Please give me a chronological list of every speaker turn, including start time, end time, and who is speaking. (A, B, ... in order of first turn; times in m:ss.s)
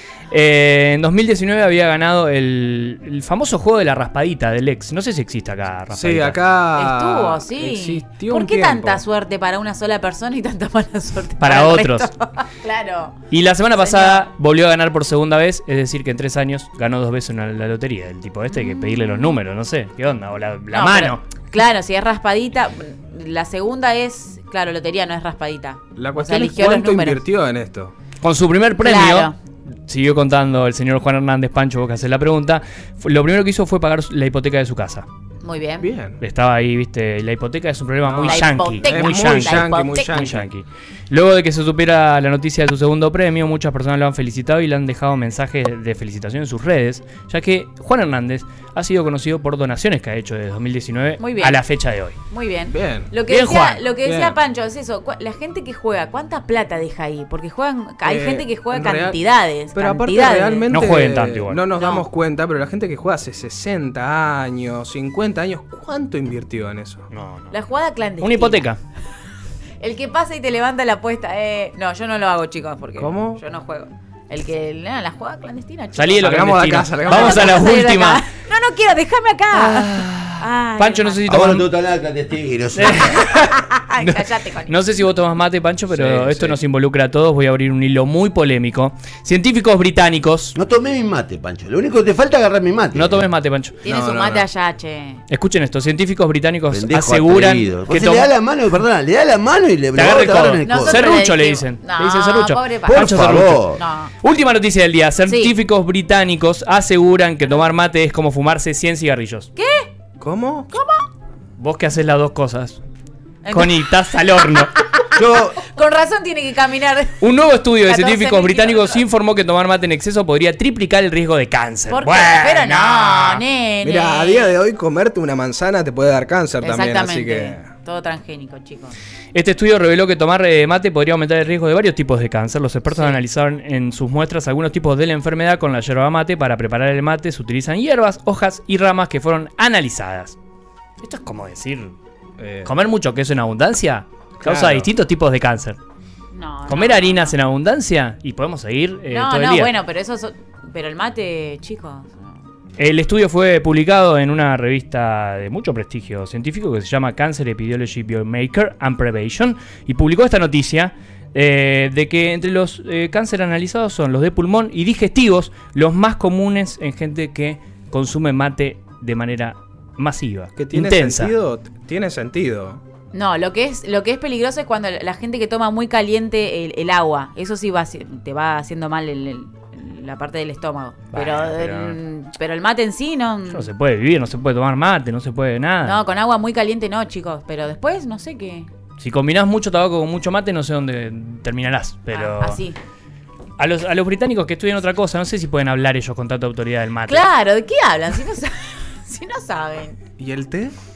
0:00.3-0:06.4 A
0:05.9-0:09.0 B
0:06.8-0:13.2 C
0:11.4-0:12.1 A
0:13.3-0:21.2 A
0:13.8-0:14.3 C
0:18.5-0:19.3 C
0:20.7-0:27.2 C
0:26.0-0:27.9 B
0:28.2-0:29.3 A
0:28.8-0:29.3 C
0:29.9-0:35.0 A
0:35.4-0:35.9 C
0:35.8-0:36.2 B
0:36.2-0:52.2 A
0:38.0-0:40.5 B
0:38.2-0:40.2 C
0:51.2-0:51.6 C
0:52.3-1:00.7 C
0:52.7-0:53.2 B
0:53.3-0:53.8 A
0:54.0-0:54.4 B
0:58.0-1:07.0 B
1:00.7-1:01.6 A
1:01.8-1:02.0 C
1:07.1-1:07.5 A
1:07.5-1:08.6 C
1:08.2-1:08.8 A
1:09.8-1:16.2 C
1:13.0-1:13.4 B
1:15.9-1:18.2 A
1:16.2-1:17.7 B
1:17.0-1:21.3 C
1:19.5-1:21.7 A
1:21.3-1:23.3 D
1:22.7-1:30.5 A
1:23.0-1:24.7 C
1:25.9-1:26.6 B
1:30.6-1:33.2 D
1:32.9-1:33.8 A
1:33.8-1:35.2 C
1:33.8-1:34.4 B
1:35.3-1:38.3 A
1:36.7-1:41.2 D
1:39.9-1:49.5 A
1:40.6-1:43.1 C
1:42.8-1:43.8 D
1:43.8-1:44.1 C
1:45.3-1:45.5 C
1:49.6-1:49.9 C
1:50.2-1:50.7 B
1:50.7-1:51.0 C
1:51.6-1:52.8 A
1:53.4-1:57.2 C
1:53.5-1:54.8 A
1:57.2-2:03.4 A
1:57.7-1:59.0 C
2:01.9-2:04.6 C
2:03.8-2:07.7 B
2:06.6-2:08.9 C
2:09.3-2:20.4 A
2:12.9-2:13.2 C
2:21.0-2:21.9 A
2:22.4-2:22.7 B
2:22.6-2:25.8 A
2:24.4-2:24.9 B
2:26.3-2:27.3 C
2:26.7-2:29.7 A
2:29.1-2:32.4 C
2:32.8-2:51.3 A
2:50.6-2:52.8 B
2:53.1-3:03.6 C
3:01.1-3:02.0 A
3:03.5-3:06.0 A
3:05.8-3:08.7 C
3:09.0-3:12.6 A
3:12.1-3:12.8 C
3:13.6-3:17.3 A
3:17.1-3:20.0 C
3:20.2-3:20.7 B